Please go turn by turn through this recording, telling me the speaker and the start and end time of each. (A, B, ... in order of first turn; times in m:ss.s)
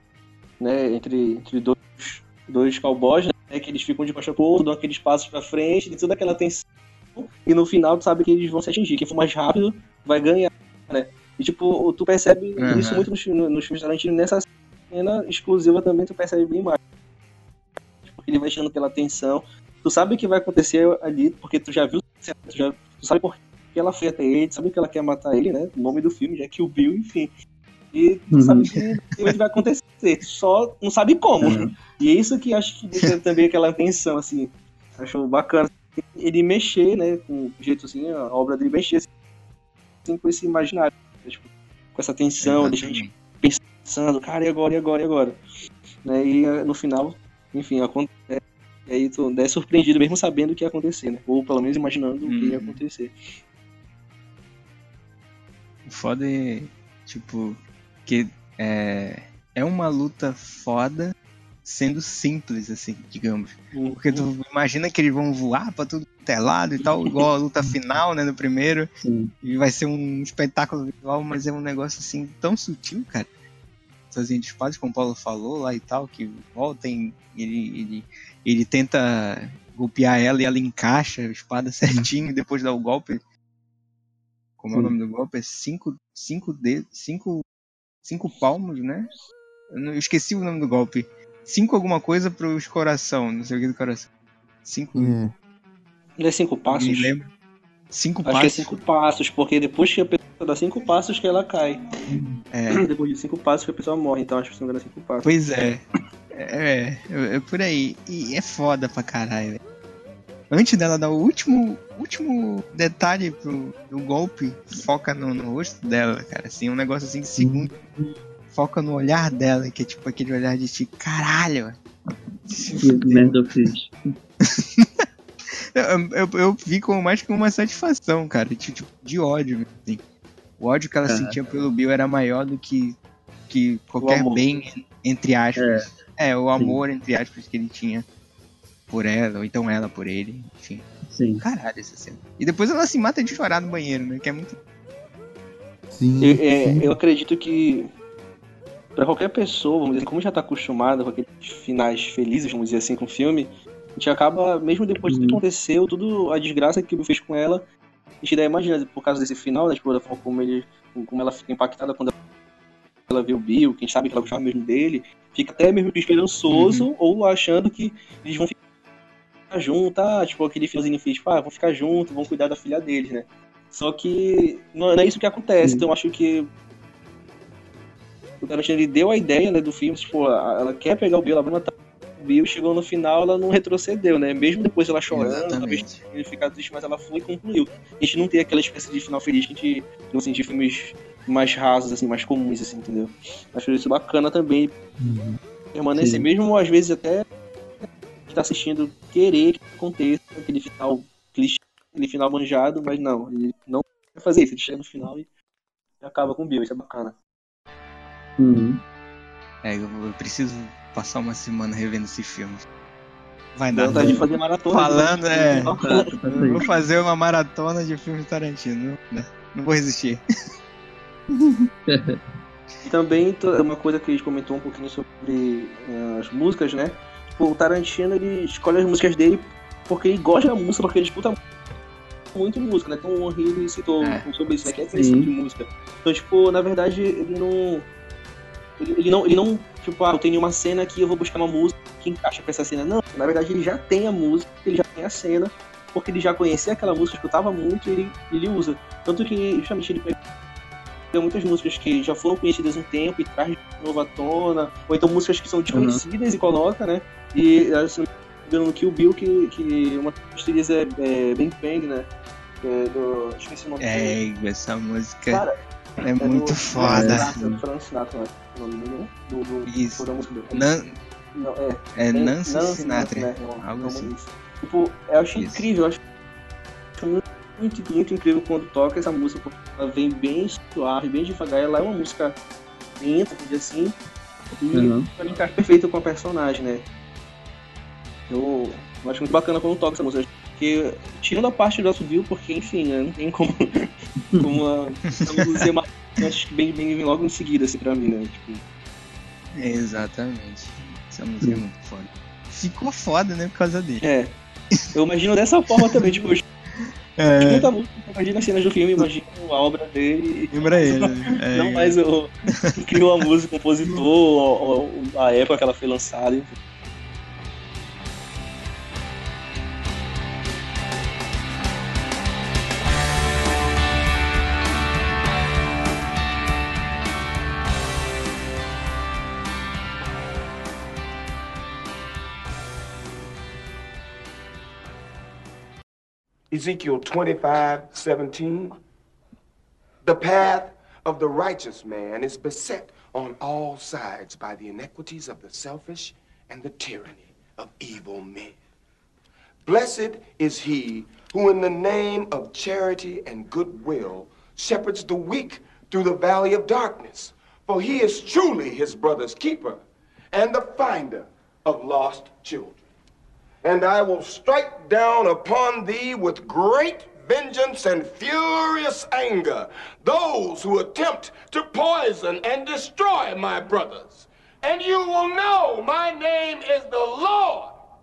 0:00.6-0:16.8 A
0:12.6-0:13.1 B
0:18.0-0:27.3 A
0:27.9-0:39.1 A
0:28.3-0:28.6 C
0:31.4-0:31.7 C
0:40.0-0:45.4 A
0:42.4-0:43.1 B
0:46.0-0:53.1 A
0:52.2-0:52.8 B
0:55.9-1:01.1 B
1:01.6-1:08.9 B
1:03.7-1:04.3 A
1:09.0-1:09.3 C
1:09.4-1:13.3 B
1:14.1-1:23.2 B
1:24.6-1:27.4 B
1:28.0-1:29.1 B
1:29.7-1:34.1 B
1:34.6-1:35.2 B
1:34.9-1:35.3 D
1:36.2-1:37.1 A
1:36.7-1:37.3 B
1:37.9-1:38.7 B
1:38.3-1:41.8 A
1:42.1-1:42.4 D
1:42.5-1:42.9 B
1:42.7-1:45.3 A
1:45.2-1:49.6 B
1:50.5-1:57.7 B
1:57.4-1:58.2 D
1:58.5-2:01.8 B
2:02.5-2:03.4 B
2:02.8-2:03.9 C
2:04.4-2:10.0 B
2:10.6-2:13.0 B
2:11.1-2:11.4 C
2:13.5-2:18.1 B
2:14.0-2:14.6 A
2:15.6-2:15.9 C
2:18.9-2:20.9 B
2:21.1-2:21.4 C
2:21.4-2:24.6 B
2:25.9-2:26.9 D
2:26.2-2:27.9 A
2:28.9-2:37.6 A
2:35.1-2:35.4 C
2:38.2-2:42.1 A
2:43.1-2:48.6 A
2:46.5-2:46.9 B
2:49.5-2:56.5 A
2:58.4-3:14.7 A
3:05.1-3:06.0 B
3:15.0-3:15.4 D
3:15.7-3:17.3 A
3:15.9-3:16.3 C
3:18.3-3:25.3 A
3:26.0-3:27.2 A
3:28.4-3:28.8 C
3:29.6-3:32.6 B
3:33.6-3:35.7 B
3:33.7-3:36.6 A
3:33.9-3:34.2 C
3:35.8-3:36.6 C
3:36.3-3:40.2 B
3:41.4-3:41.7 D
3:41.9-3:42.2 C
3:42.8-3:51.4 A
3:52.3-3:57.9 A
3:54.0-3:54.3 B
3:54.9-3:55.3 C
3:58.8-4:10.2 A
4:11.1-4:22.1 A
4:15.7-4:16.0 C
4:22.6-4:24.2 A
4:23.8-4:25.4 B
4:25.3-4:25.6 A
4:26.0-4:27.4 B
4:26.2-4:30.6 A
4:26.8-4:27.6 C
4:29.6-4:31.0 B
4:31.4-4:36.0 A
4:31.9-4:34.1 B
4:35.4-4:35.7 B
4:37.0-4:42.4 A
4:43.0-4:44.0 A
4:44.6-4:46.9 A
4:44.7-4:45.1 C
4:48.3-4:58.6 A
4:54.3-4:54.6 C
4:55.2-4:55.6 B
4:59.6-5:04.0 B
5:04.0-5:04.4 A
5:04.9-5:06.4 A
5:05.8-5:06.0 B
5:07.2-5:07.7 B
5:07.4-5:16.6 A
5:10.5-5:12.0 B
5:36.5-5:38.8 E
5:40.0-5:48.6 E
5:49.6-6:02.8 E
6:03.6-6:17.8 E